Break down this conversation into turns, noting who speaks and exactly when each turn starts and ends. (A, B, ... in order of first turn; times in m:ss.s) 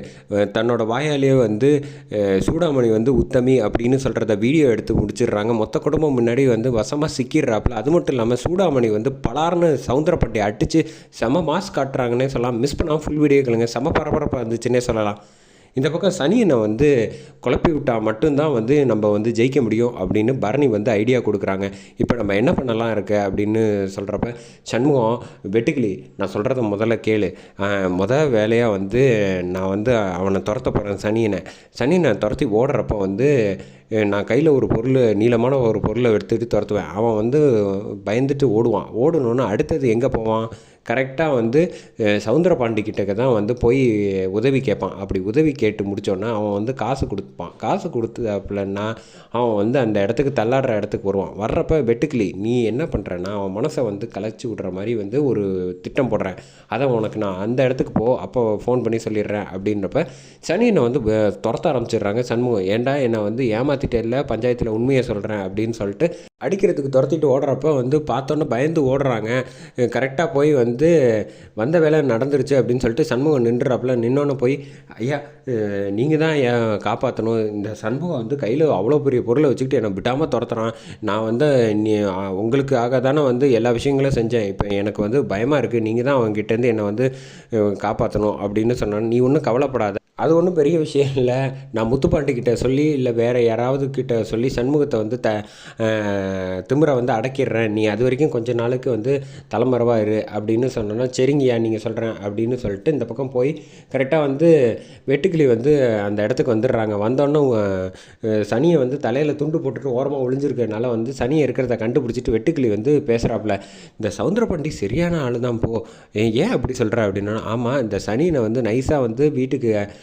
0:00.4-0:15.2 A
0:15.8-0:16.9 A
0:17.4-0:33.3 A
0:34.0-0:41.6 A
0:42.2-1:10.9 A
1:11.6-1:44.5 A
1:45.1-1:59.7 A